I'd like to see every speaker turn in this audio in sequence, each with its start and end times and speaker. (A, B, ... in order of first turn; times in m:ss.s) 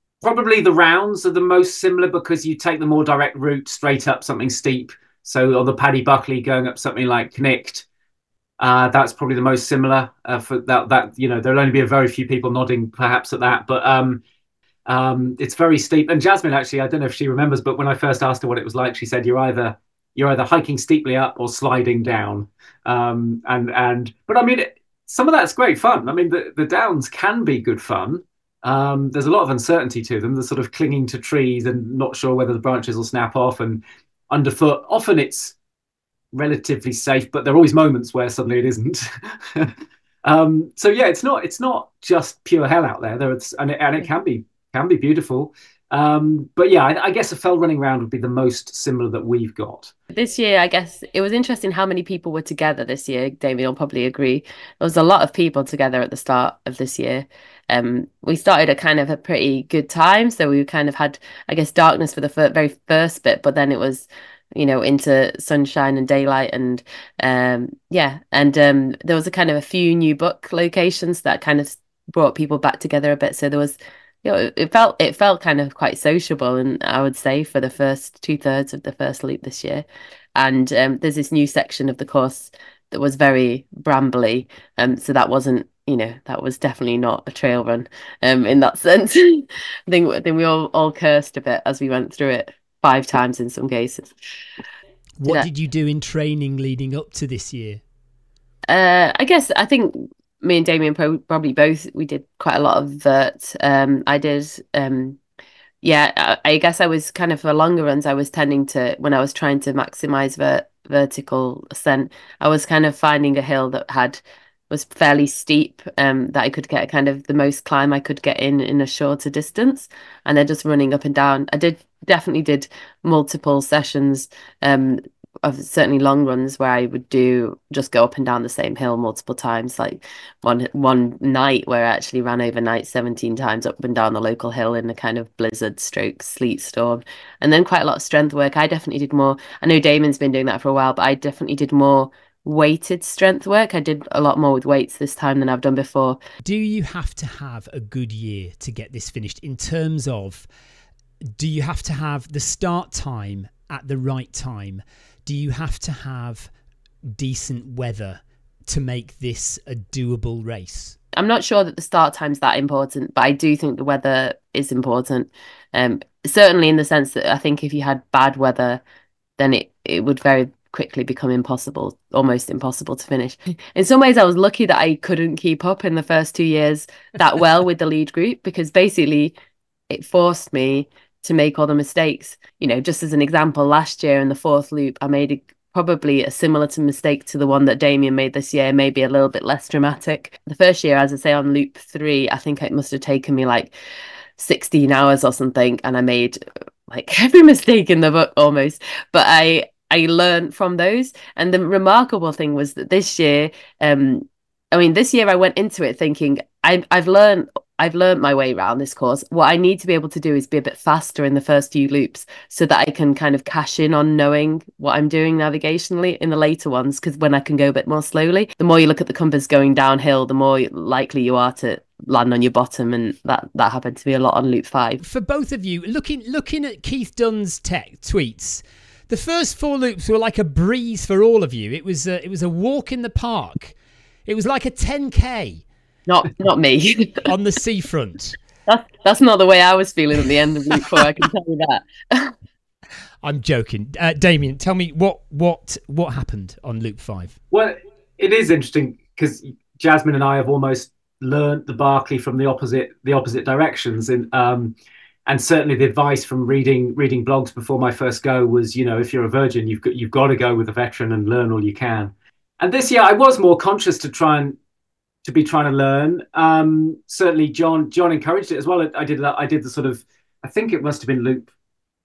0:00.2-0:07.8 A
0:08.6-0:14.2 A
0:14.9-0:35.6 A
0:36.3-0:39.7 A
0:40.2-0:49.9 A
0:50.1-1:19.8 B
1:20.4-1:34.1 B
1:35.2-1:37.8 C
1:38.7-1:45.2 B
1:45.8-2:26.2 B
2:26.4-2:30.5 C
2:31.4-2:36.5 C
2:37.2-2:41.0 C
2:41.2-2:48.8 B
2:49.4-2:59.3 B
2:59.9-3:13.7 B
3:14.4-3:16.4 B
3:16.9-3:45.0 B
3:45.0-3:55.6 C
3:56.1-3:57.3 B
3:57.3-3:58.4 C
3:58.7-4:02.3 B
4:03.2-4:07.4 C
4:07.5-4:14.7 A
4:15.2-4:24.6 A
4:25.2-4:31.5 A